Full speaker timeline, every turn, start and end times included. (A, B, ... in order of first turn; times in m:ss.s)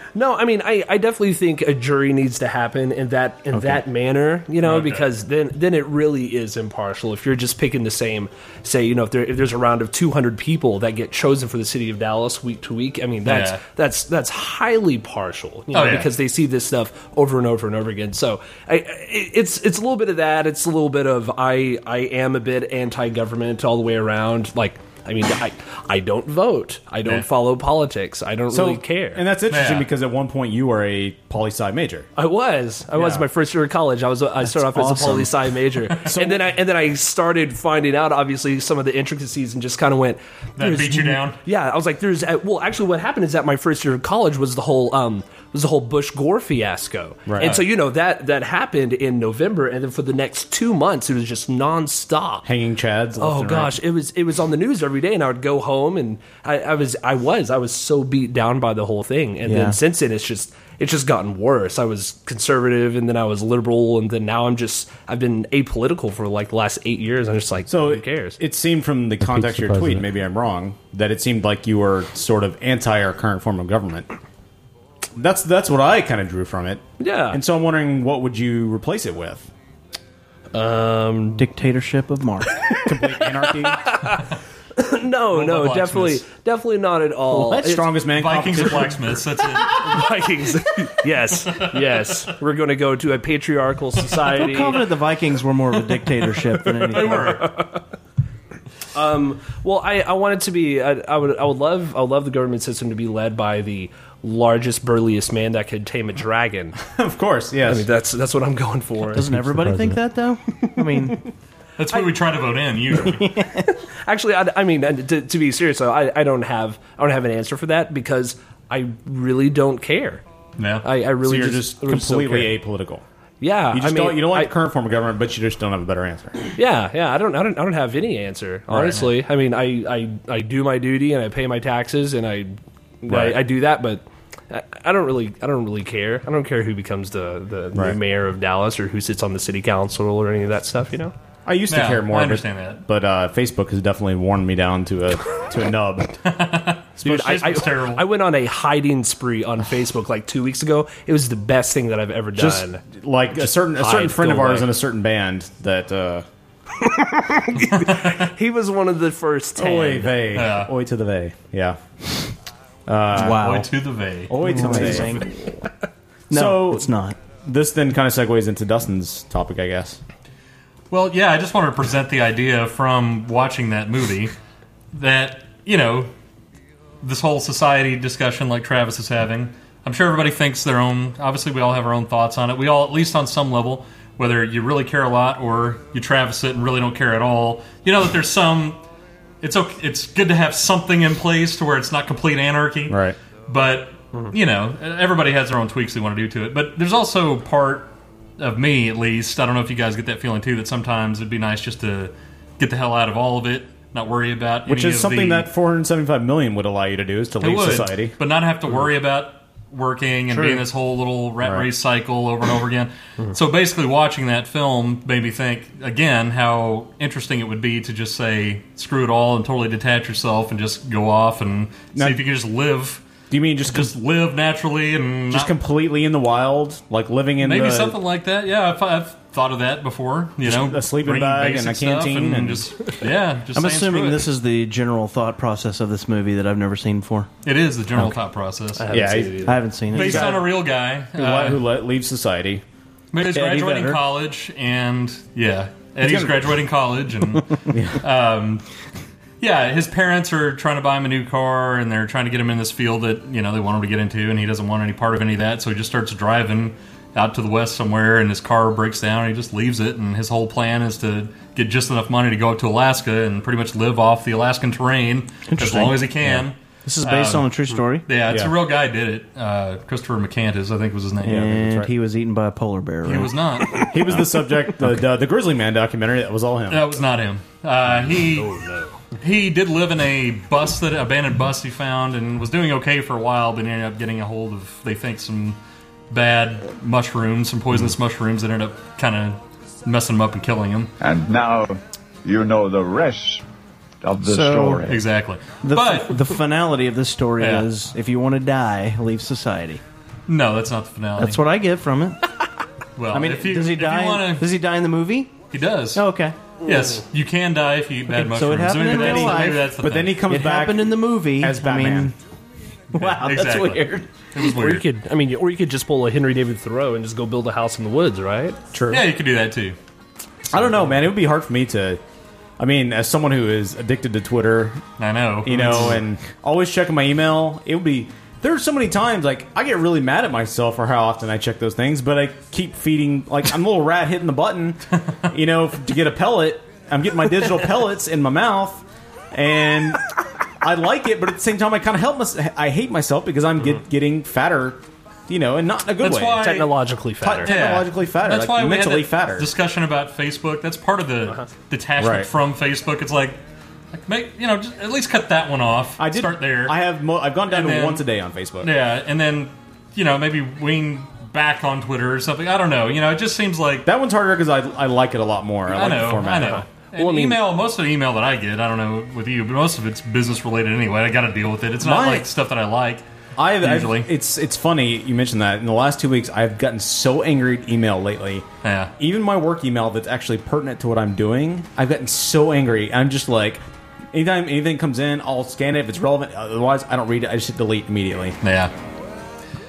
0:00.2-0:29.2 A
0:03.5-0:03.8 B
0:04.6-0:05.1 C
0:13.2-0:13.6 C
0:15.7-0:16.1 C
0:28.5-0:32.1 D
0:29.5-0:29.9 C
0:32.2-0:52.5 A
0:33.0-0:33.2 D
0:34.4-0:35.4 B
0:36.1-0:36.4 D
0:40.6-0:41.4 C
0:47.3-0:47.6 D
0:52.4-0:53.8 D
0:53.2-1:08.4 A
0:59.5-0:59.8 B
1:07.7-1:14.1 D
1:15.2-1:19.5 D
1:17.0-1:17.4 A
1:20.5-1:21.4 A
1:21.4-1:22.5 B
1:22.8-1:23.8 D
1:23.6-1:24.2 A
1:24.8-1:27.9 A
1:25.3-1:26.2 C
1:27.3-1:27.7 B
1:27.5-1:29.1 D
1:28.2-1:30.1 C
1:29.7-1:34.9 A
1:31.6-1:32.1 C
1:34.3-1:37.4 B
1:36.9-1:37.8 A
1:38.9-1:46.7 A
1:46.8-1:47.9 D
1:47.7-1:49.4 A
1:49.1-1:51.2 B
1:51.8-1:53.3 C
1:53.0-1:53.7 B
1:54.0-2:00.2 A
2:00.6-2:00.8 C
2:00.8-2:02.5 A
2:01.2-2:03.0 D
2:03.4-2:04.5 A
2:03.7-2:06.4 D
2:06.6-2:21.1 A
2:08.8-2:09.0 C
2:13.1-2:13.4 D
2:21.5-2:26.1 D
2:21.7-2:22.8 C
2:26.3-2:28.0 C
2:27.0-2:32.8 A
2:32.4-2:36.2 D
2:33.4-2:34.7 A
2:36.9-2:40.2 A
2:39.6-2:41.8 D
2:40.3-2:40.7 C
2:42.9-2:43.5 D
2:43.2-2:43.7 B
2:43.2-2:45.0 C
2:44.3-2:45.2 D
2:44.4-2:45.3 B
2:46.3-2:46.9 D
2:46.3-2:47.2 B
2:47.4-2:50.0 D
2:50.9-2:54.3 C
2:54.9-2:56.1 C
2:57.0-3:08.8 C
3:09.4-3:25.5 C
3:12.9-3:13.2 D
3:24.7-3:28.2 D
3:27.4-3:43.0 C
3:31.4-3:31.7 D
3:42.0-3:42.2 D
3:43.3-3:43.9 D
3:43.7-3:45.5 C
3:45.3-3:48.0 D
3:47.4-3:54.3 C
3:50.4-3:52.6 D
3:53.6-3:57.3 B
3:57.4-3:59.1 C
3:58.9-3:59.4 D
3:59.0-3:59.2 A
3:59.4-4:00.3 B
3:59.9-4:00.5 D
3:59.9-4:01.6 C
4:01.2-4:02.6 D
4:03.1-4:08.6 C
4:03.4-4:04.0 B
4:06.0-4:06.4 D
4:07.7-4:08.0 D
4:09.4-4:27.5 C
4:25.5-4:28.0 B
4:28.0-4:31.5 C
4:31.2-4:33.3 B
4:31.2-4:31.9 D
4:33.0-4:33.9 C
4:33.9-4:36.8 D
4:36.7-4:38.5 C
4:39.2-4:45.6 C
4:46.1-4:50.9 C
4:51.0-4:53.4 E
4:54.0-4:55.0 E
4:54.2-4:54.9 B
4:54.9-4:56.3 C
4:55.6-4:59.8 B
4:57.4-4:57.7 C
5:00.3-5:01.4 C
5:01.2-5:02.2 B
5:03.0-5:04.4 C
5:03.1-5:05.3 B
5:05.5-5:06.0 C
5:06.0-5:06.4 B
5:06.6-5:10.2 C
5:08.1-5:09.6 B
5:08.8-5:12.2 D
5:10.3-5:12.1 B
5:12.9-5:14.0 B
5:13.0-5:14.8 C
5:14.5-5:18.6 A
5:18.7-5:19.0 D
5:18.9-5:19.8 C
5:20.5-5:22.0 D
5:22.6-5:24.8 D
5:25.0-5:26.0 C
5:25.4-5:40.0 D
5:40.6-5:46.5 D
5:46.0-5:46.7 C
5:46.4-5:47.5 A
5:47.2-5:49.5 D
5:47.4-5:53.4 C
5:52.0-5:52.3 D
5:54.0-5:56.8 C
5:56.0-5:58.7 D
5:57.5-5:58.0 C
5:58.6-6:03.9 C
6:03.9-6:06.6 D
6:05.7-6:13.0 C
6:06.5-6:07.4 A
6:11.8-6:12.3 D
6:13.4-6:18.5 D
6:13.6-6:14.1 C
6:18.6-6:18.9 C
6:19.0-6:28.4 D
6:28.4-6:28.7 C